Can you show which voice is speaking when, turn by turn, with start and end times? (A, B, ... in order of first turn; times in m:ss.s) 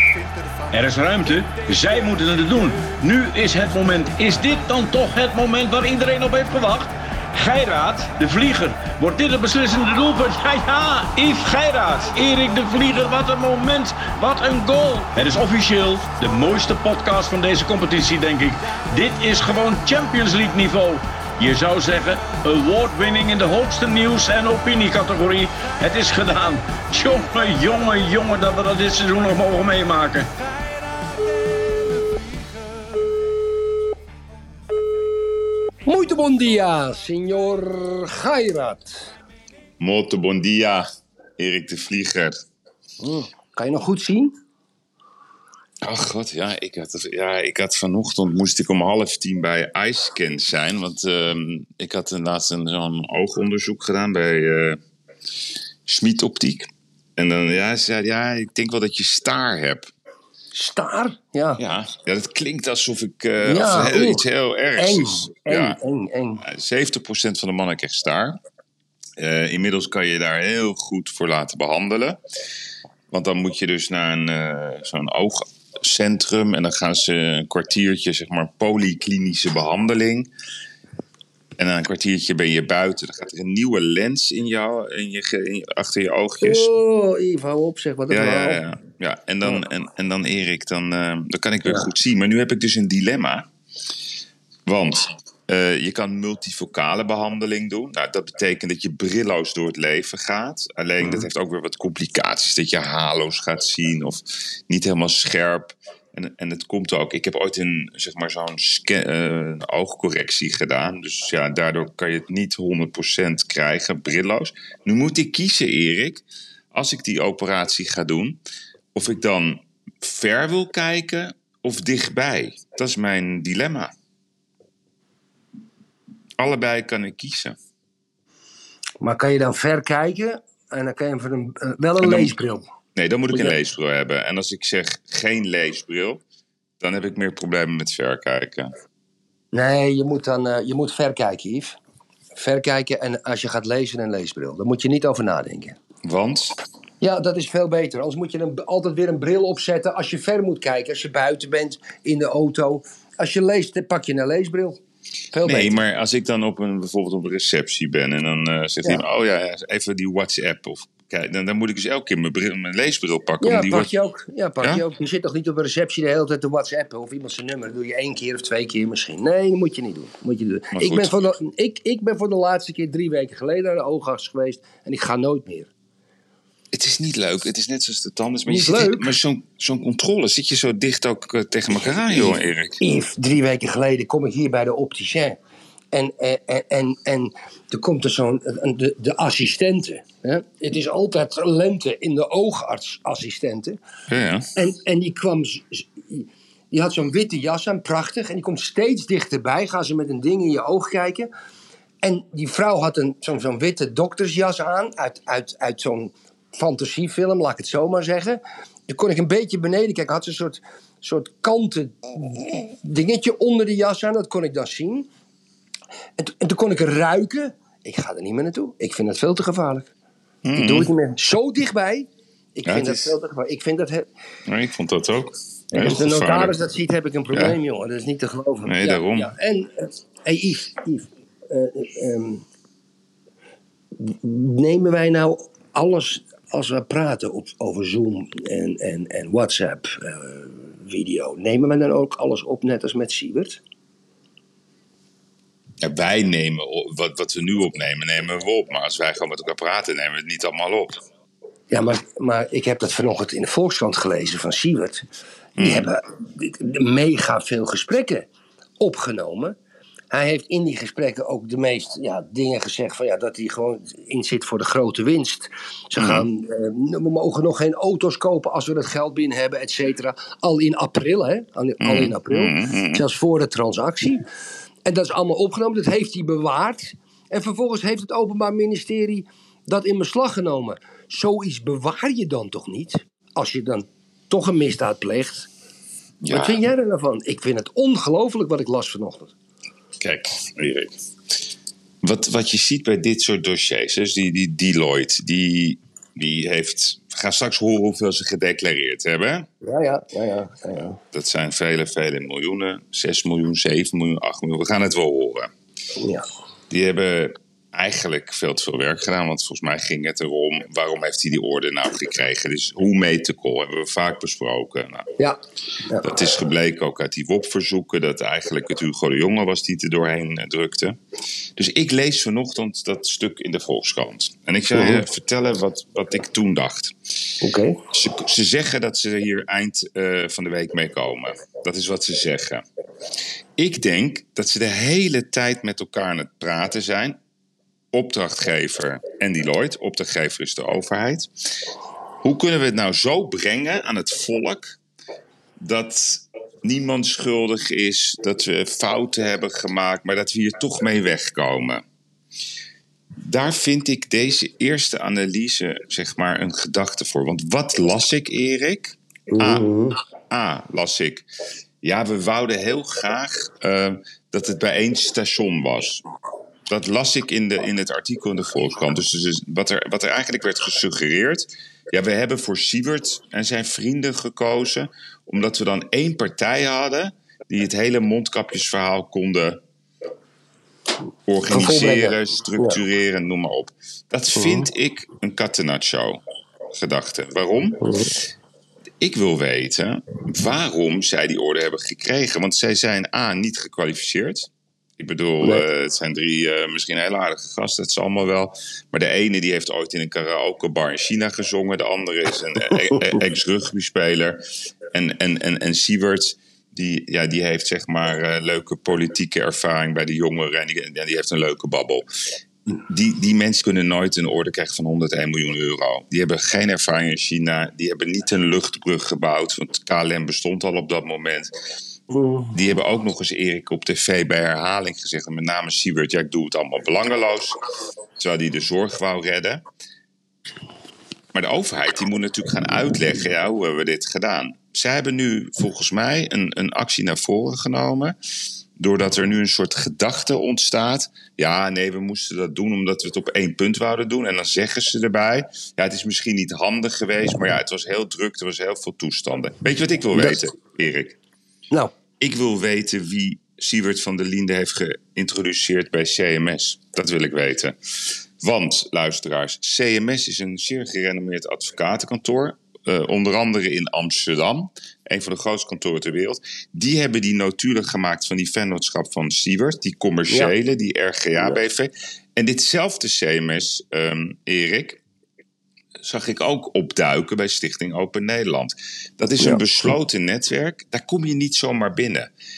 0:00.7-0:30.3 A
0:35.8-0:39.0 B
0:39.8-0:40.8 C
0:41.4-0:42.4 C
0:43.0-0:44.3 B
0:45.8-0:54.8 C
0:55.8-0:59.9 C
1:00.5-1:01.6 B
1:01.6-1:05.8 C
1:03.4-1:04.2 B
1:04.8-1:06.4 B
1:06.4-1:08.4 C
1:09.2-1:12.2 C
1:13.1-1:20.3 C
1:21.6-1:26.7 C
1:26.4-1:28.6 B
1:28.1-1:33.4 C
1:34.6-1:58.4 C
1:58.9-2:03.9 C
2:06.4-2:07.6 C
2:09.0-2:12.7 B
2:12.0-2:12.3 C
2:12.9-2:16.2 C
2:16.8-2:18.7 C
2:19.5-2:21.8 B
2:22.3-2:25.8 B
2:26.0-2:26.5 C
2:27.0-2:34.8 B
2:35.3-2:35.8 B
2:35.4-2:43.9 C
2:43.4-2:55.7 B
2:50.7-2:51.1 C
2:56.7-3:02.8 C
2:58.5-2:59.2 B
3:02.1-3:05.4 B
3:05.9-3:13.8 B
3:14.1-3:14.5 C
3:14.6-3:21.3 B
3:22.0-3:35.1 B
3:36.2-3:39.9 B
3:40.4-3:40.9 C
3:40.5-3:44.1 B
3:42.6-3:43.1 C
3:44.5-3:46.5 C
3:45.7-3:52.4 B
3:48.6-3:49.3 C
3:54.0-4:03.6 B
4:05.8-4:11.0 C
4:11.7-4:15.0 B
4:15.6-4:18.3 B
4:15.6-4:15.9 C
4:18.8-4:19.6 B
4:20.1-4:34.2 B
4:26.0-4:26.3 C
4:31.8-4:33.0 C
4:34.8-4:45.5 B
4:46.2-4:46.6 C
4:46.3-4:49.3 B
4:50.0-4:51.0 C
4:52.0-4:59.5 C
4:59.6-5:01.0 B
5:01.1-5:05.5 C
5:06.0-5:06.2 B
5:06.7-5:15.1 C
5:15.2-5:16.1 B
5:16.0-5:21.0 C
5:21.6-5:26.9 C
5:24.7-5:25.0 B
5:27.4-5:27.8 B
5:27.9-5:32.6 C
5:33.6-5:37.2 C
5:37.9-5:41.3 C
5:42.2-5:44.8 C
5:45.6-5:51.8 C
5:53.2-5:59.6 C
5:59.3-6:00.0 B
6:00.3-6:01.2 C
6:01.8-6:06.0 C
6:06.7-6:19.6 C
6:21.3-6:26.2 C
6:21.5-6:22.8 B
6:24.4-6:24.7 B
6:26.7-6:27.9 C
6:27.8-6:28.1 B
6:29.0-6:44.4 C
6:44.9-6:52.0 C
6:52.9-7:01.5 C
7:02.1-7:02.5 B
7:02.5-7:07.6 C
7:08.2-7:09.6 C
7:11.3-7:18.1 C
7:18.8-7:31.2 C
7:30.1-7:30.4 B
7:32.2-7:55.0 C
7:56.0-8:02.3 C